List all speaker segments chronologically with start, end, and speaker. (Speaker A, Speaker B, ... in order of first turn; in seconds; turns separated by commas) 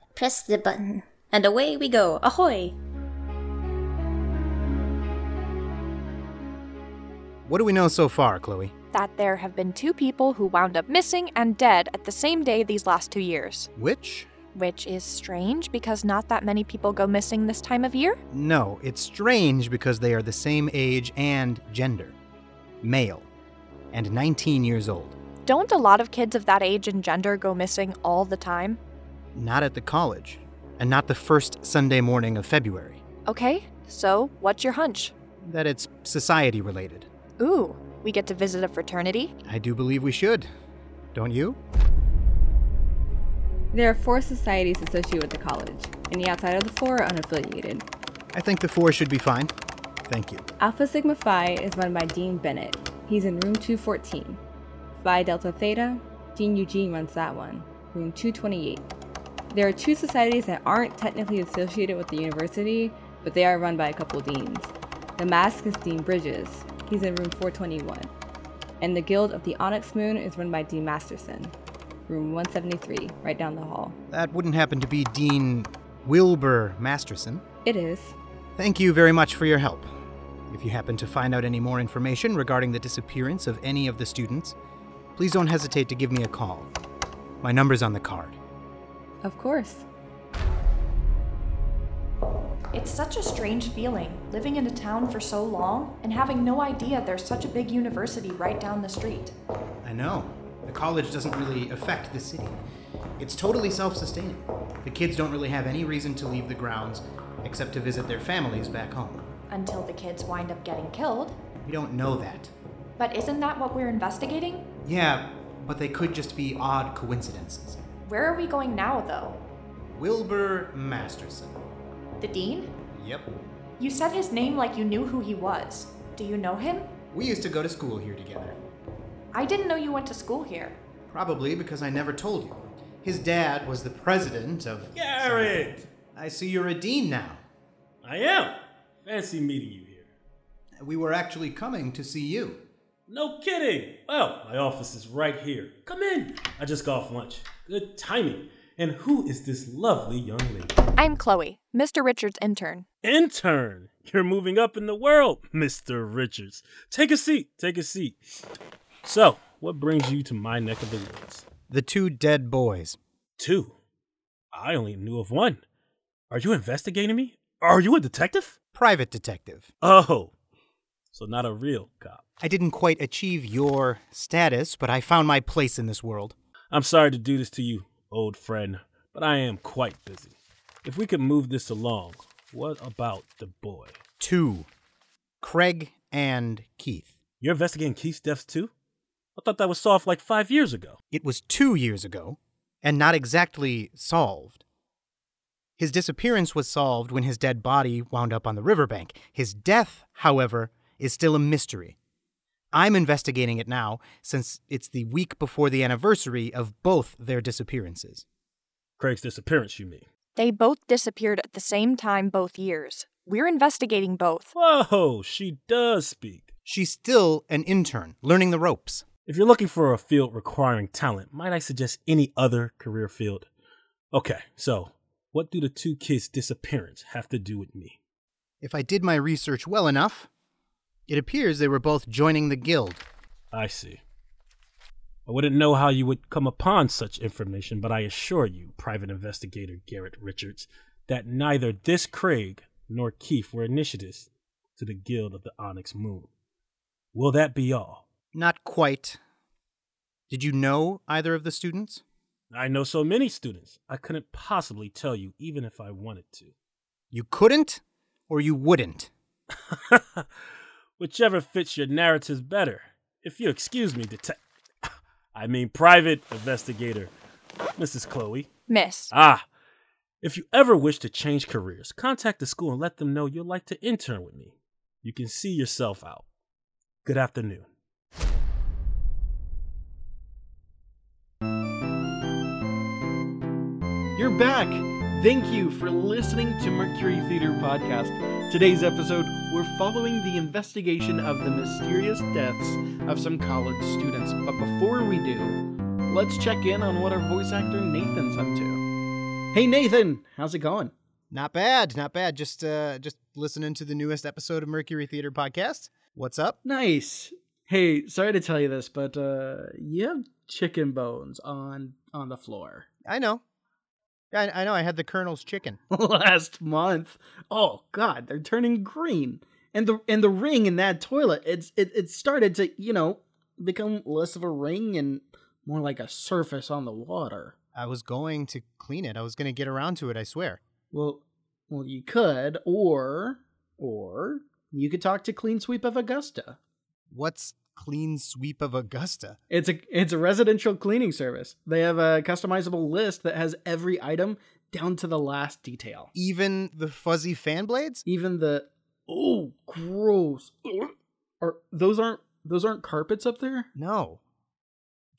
Speaker A: 0.1-2.7, Speaker B: 7.4-8.7, Speaker C: 8.9-13.7, Speaker B: 13.8-14.3, Speaker C: 14.5-18.2, Speaker B: 18.3-22.1, Speaker B: 22.8-23.3, Speaker B: 23.9-25.2, Speaker C: 25.4-28.8, Speaker B: 29.3-33.0, Speaker C: 33.3-35.1, Speaker B: 35.4-37.1, Speaker C: 37.4-39.3, Speaker B: 39.4-40.5, Speaker B: 41.1-41.6, Speaker D: 43.7-47.9, Speaker B: 48.3-49.5, Speaker B: 50.1-50.5, Speaker D: 50.6-54.4, Speaker D: 55.0-58.9, Speaker D: 59.5-68.1, Speaker D: 68.8-71.5, Speaker D: 72.1-74.0, Speaker B: 74.1-77.4, Speaker D: 77.6-78.2, Speaker B: 78.6-79.9, Speaker B: 80.5-84.6, Speaker B: 85.1-86.7, Speaker B: 87.4-88.4, Speaker D: 89.2-89.8, Speaker C: 92.7-99.3, Speaker B: 99.8-102.6, Speaker B: 103.2-109.2, Speaker C: 109.5-111.4, Speaker B: 111.6-112.5, Speaker C: 113.0-114.7, Speaker B: 114.8-117.8, Speaker C: 118.0-119.4, Speaker B: 119.9-121.6, Speaker C: 122.2-122.7, Speaker B: 122.9-123.3, Speaker C: 123.8-126.9, Speaker B: 127.1-128.6, Speaker C: 129.3-130.8, Speaker B: 131.1-137.4, Speaker E: 134.9-135.8, Speaker E: 138.0-140.1, Speaker B: 140.8-142.6, Speaker E: 143.1-150.8, Speaker C: 151.0-152.8, Speaker E: 153.0-158.2, Speaker E: 159.0-161.4, Speaker B: 161.7-163.0, Speaker E: 163.4-163.7, Speaker E: 164.5-165.6, Speaker E: 166.3-168.6, Speaker B: 168.7-169.7, Speaker E: 169.8-170.3, Speaker E: 171.1-172.2, Speaker B: 172.4-176.3, Speaker E: 176.7-184.0, Speaker B: 184.2-184.7, Speaker B: 185.4-187.1, Speaker E: 187.4-188.7, Speaker E: 189.3-191.0, Speaker B: 191.1-194.6, Speaker B: 195.8-201.9, Speaker B: 202.7-208.2, Speaker E: 209.0-210.1, Speaker C: 210.3-214.5, Speaker E: 214.5-216.5, Speaker B: 216.7-219.0, Speaker E: 219.2-223.5, Speaker E: 224.1-228.0, Speaker B: 228.6-230.3, Speaker B: 231.1-233.0, Speaker E: 233.5-234.0, Speaker E: 235.2-246.3, Speaker E: 247.1-248.0, Speaker B: 248.3-249.2, Speaker B: 250.3-252.0, Speaker E: 252.5-256.5, Speaker B: 257.1-259.1, Speaker E: 259.7-260.3, Speaker E: 261.0-267.1, Speaker E: 267.8-268.5, Speaker C: 268.7-269.1, Speaker E: 269.1-269.4, Speaker E: 270.2-276.2, Speaker E: 277.0-277.7, Speaker F: 284.1-298.8, Speaker F: 299.5-300.9, Speaker B: 301.3-306.6, Speaker F: 306.6-312.9, Speaker B: 313.0-313.4, Speaker B: 314.3-315.8, Speaker F: 315.9-327.5, Speaker B: 327.7-330.6, Speaker F: 330.9-336.6, Speaker B: 337.1-339.4, Speaker F: 339.5-346.1, Speaker B: 346.1-348.0, Speaker F: 348.1-353.7, Speaker B: 353.7-354.2